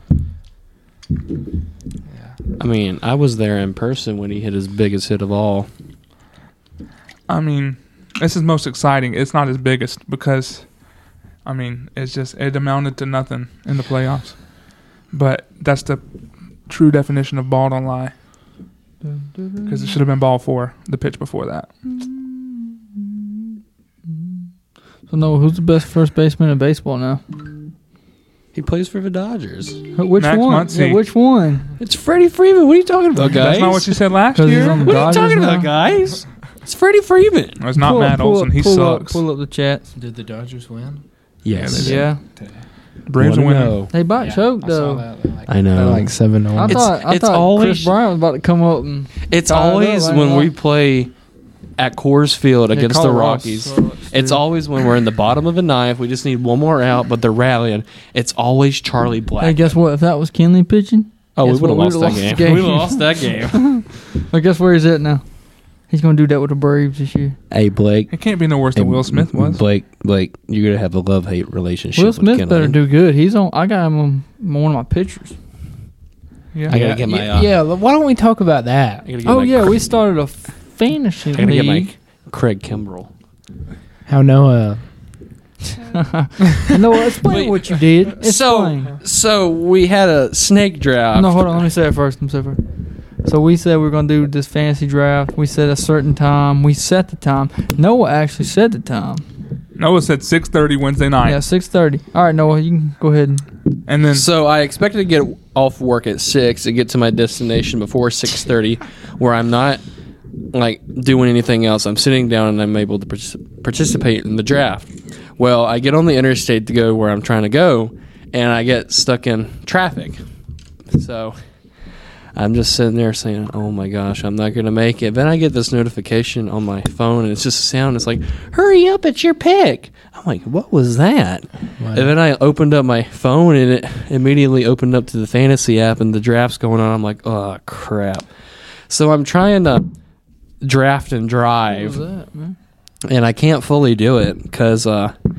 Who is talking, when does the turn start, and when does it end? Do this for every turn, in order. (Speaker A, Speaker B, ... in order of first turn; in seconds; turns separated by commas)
Speaker A: 2.1-2.4, Speaker B: 2.6-5.7, Speaker C: 7.3-16.0, Speaker C: 16.6-18.2, Speaker D: 19.0-20.0, Speaker C: 19.6-21.7, Speaker D: 21.9-24.5, Speaker D: 25.1-27.2, Speaker B: 28.5-29.8, Speaker D: 29.9-31.7, Speaker C: 30.2-31.0, Speaker B: 31.8-34.0, Speaker C: 33.2-35.2, Speaker D: 34.3-35.7, Speaker B: 34.7-37.6, Speaker C: 37.6-39.2, Speaker D: 37.7-39.9, Speaker A: 40.0-42.6, Speaker B: 41.4-42.1, Speaker C: 41.6-41.9, Speaker D: 41.8-42.2, Speaker C: 43.0-43.8, Speaker B: 43.2-43.9, Speaker D: 43.9-45.0, Speaker A: 44.2-46.9, Speaker B: 45.5-47.9, Speaker D: 46.5-50.5, Speaker B: 49.2-51.1, Speaker B: 51.8-59.8, Speaker D: 52.7-54.4, Speaker D: 59.4-67.4, Speaker B: 61.4-63.9, Speaker B: 67.5-72.8, Speaker C: 68.1-69.6, Speaker D: 72.0-75.4, Speaker A: 76.7-79.0, Speaker B: 76.7-77.5, Speaker B: 79.0-79.8, Speaker D: 79.2-81.9, Speaker B: 81.3-83.1, Speaker A: 84.1-84.9, Speaker D: 85.9-89.0, Speaker B: 87.2-91.7, Speaker D: 91.1-99.2, Speaker C: 99.8-101.4, Speaker D: 101.2-103.5, Speaker C: 103.8-104.2, Speaker B: 104.1-109.8, Speaker B: 110.5-120.2, Speaker B: 120.9-139.9, Speaker A: 131.8-132.1, Speaker B: 140.6-142.0, Speaker D: 141.7-142.6, Speaker B: 143.0-145.2